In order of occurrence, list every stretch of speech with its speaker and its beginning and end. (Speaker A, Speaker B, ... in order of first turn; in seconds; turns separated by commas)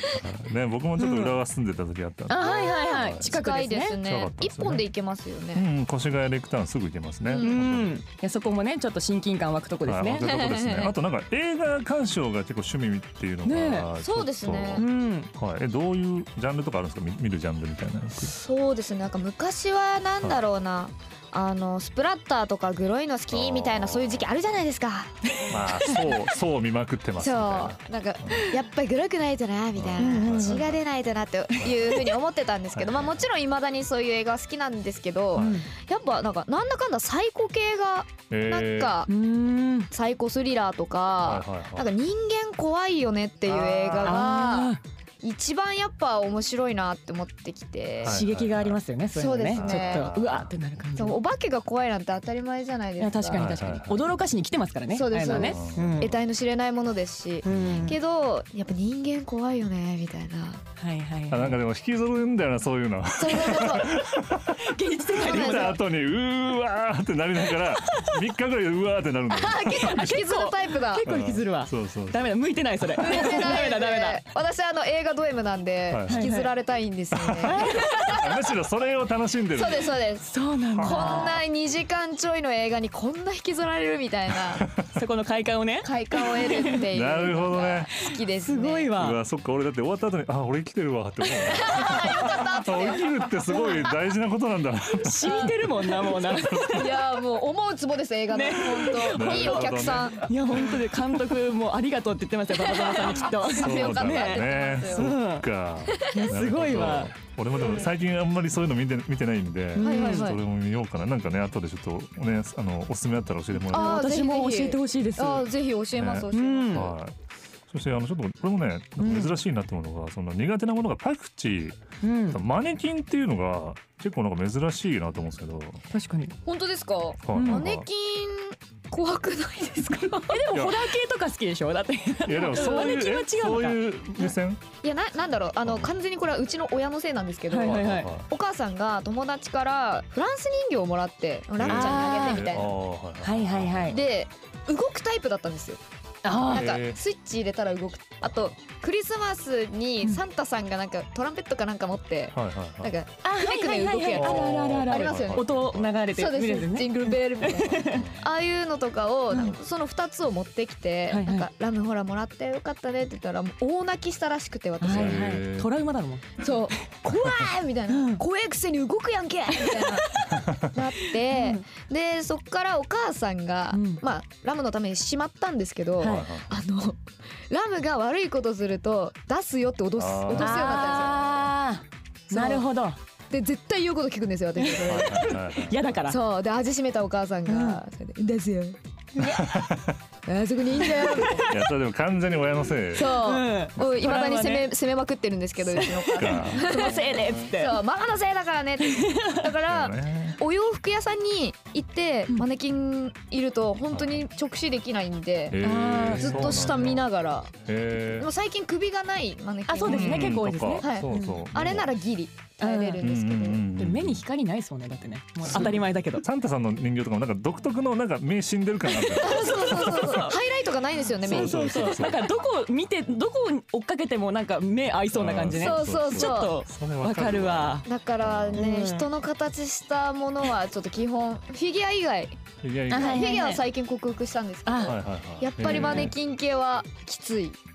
Speaker A: 0.1-3.4, Speaker B: 1.0-1.4, Speaker B: 2.3-4.0, Speaker C: 2.4-5.7, Speaker A: 4.0-4.8, Speaker A: 5.5-8.0, Speaker C: 7.3-7.6, Speaker B: 7.4-10.3, Speaker A: 9.9-18.3, Speaker C: 10.2-10.9, Speaker B: 13.4-13.9, Speaker C: 14.0-14.8, Speaker B: 14.8-15.3, Speaker C: 18.2-26.1, Speaker A: 23.3-24.3, Speaker B: 25.3-26.0, Speaker A: 25.5-28.4, Speaker C: 27.2-39.1, Speaker A: 29.8-30.8, Speaker B: 30.0-30.6, Speaker A: 31.6-32.0, Speaker A: 32.7-33.2, Speaker A: 35.4-35.6, Speaker B: 35.4-35.7, Speaker A: 38.3-39.0, Speaker B: 39.1-39.9, Speaker C: 39.9-48.2, Speaker A: 41.2-41.9, Speaker A: 43.5-44.2, Speaker B: 44.0-44.8, Speaker A: 48.0-48.8, Speaker B: 48.0-51.2, Speaker C: 49.1-50.1, Speaker A: 49.5-50.5, Speaker C: 51.0-53.5, Speaker B: 53.0-56.1, Speaker A: 53.3-54.2, Speaker C: 54.9-60.6, Speaker A: 55.2-56.2, Speaker B: 57.4-58.0, Speaker A: 57.5-57.9, Speaker B: 60.8-61.6, Speaker A: 61.3-70.2, Speaker C: 63.2-64.0, Speaker B: 64.5-65.8, Speaker C: 65.1-65.8, Speaker B: 67.8-68.2, Speaker C: 69.3-71.1, Speaker B: 69.8-74.2, Speaker A: 71.0-72.2, Speaker C: 73.0-78.6, Speaker A: 75.9-76.3, Speaker B: 76.1-76.5, Speaker A: 77.2-80.0, Speaker B: 77.4-78.2, Speaker C: 79.5-84.7, Speaker B: 80.3-81.4, Speaker A: 80.7-81.4, Speaker A: 84.5-85.0, Speaker B: 84.9-86.8, Speaker C: 85.8-89.0, Speaker A: 86.9-88.0, Speaker B: 88.4-89.2, Speaker A: 89.0-97.0, Speaker C: 91.4-94.0, Speaker B: 91.8-92.3, Speaker B: 93.5-93.8, Speaker B: 95.0-97.0, Speaker C: 96.7-100.3, Speaker B: 98.3-105.5, Speaker A: 99.1-101.2, Speaker C: 102.6-105.2, Speaker A: 103.4-114.1, Speaker C: 105.8-106.3, Speaker B: 106.1-107.1, Speaker C: 107.6-107.9, Speaker B: 109.8-110.3, Speaker C: 109.8-110.4, Speaker B: 113.7-115.5, Speaker C: 113.7-116.9, Speaker A: 116.0-121.8, Speaker B: 116.3-116.9, Speaker B: 119.0-119.4, Speaker B: 122.0-122.4, Speaker A: 122.3-125.8, Speaker B: 125.9-126.3, Speaker C: 126.5-130.4, Speaker A: 127.3-127.9, Speaker B: 127.3-127.7, Speaker B: 130.3-134.3, Speaker A: 130.5-130.9, Speaker A: 132.2-134.6, Speaker C: 134.8-142.8, Speaker A: 135.6-135.9, Speaker B: 137.5-138.1, Speaker A: 137.6-138.2, Speaker A: 141.6-144.0, Speaker B: 141.7-142.5, Speaker B: 143.2-144.0, Speaker C: 143.9-145.8, Speaker B: 146.2-146.7, Speaker C: 146.3-155.5, Speaker A: 146.5-147.0, Speaker A: 152.3-152.9, Speaker B: 153.2-158.1, Speaker A: 154.1-155.9, Speaker C: 156.1-165.3, Speaker A: 157.9-158.2, Speaker B: 161.1-161.5, Speaker B: 164.8-166.6, Speaker A: 164.9-165.7, Speaker C: 166.4-181.4, Speaker B: 167.9-168.2, Speaker B: 169.5-170.3, Speaker A: 170.3-170.7, Speaker B: 171.0-171.6, Speaker B: 173.7-174.0, Speaker B: 176.0-176.3, Speaker A: 176.0-176.5, Speaker A: 180.0-181.0, Speaker B: 180.3-183.0, Speaker C: 182.3-182.7, Speaker C: 183.3-185.4, Speaker B: 184.6-186.2, Speaker A: 184.8-185.9, Speaker C: 186.1-188.8, Speaker B: 187.5-187.8, Speaker B: 189.2-189.4, Speaker A: 189.2-190.0, Speaker C: 190.3-191.5, Speaker B: 190.8-191.7, Speaker A: 191.5-193.2, Speaker C: 192.9-213.7, Speaker B: 193.1-194.7, Speaker A: 193.8-194.2, Speaker B: 195.7-197.8, Speaker A: 196.2-196.9, Speaker B: 198.9-199.4, Speaker A: 199.7-200.4, Speaker A: 203.9-204.2, Speaker A: 205.5-207.1, Speaker B: 205.6-206.7, Speaker A: 207.7-208.3, Speaker B: 209.7-211.4, Speaker A: 209.8-211.9, Speaker B: 212.6-213.1, Speaker A: 213.0-214.2, Speaker B: 213.7-216.2, Speaker A: 215.4-220.3, Speaker B: 218.9-220.4, Speaker C: 219.2-221.9, Speaker A: 221.2-222.3, Speaker B: 221.2-227.9, Speaker A: 225.1-228.6, Speaker C: 225.6-226.6, Speaker C: 227.8-232.4, Speaker B: 228.6-229.1, Speaker A: 232.6-233.3, Speaker B: 232.9-233.6, Speaker C: 232.9-237.6, Speaker B: 234.7-235.0, Speaker A: 234.8-236.2, Speaker B: 235.6-236.1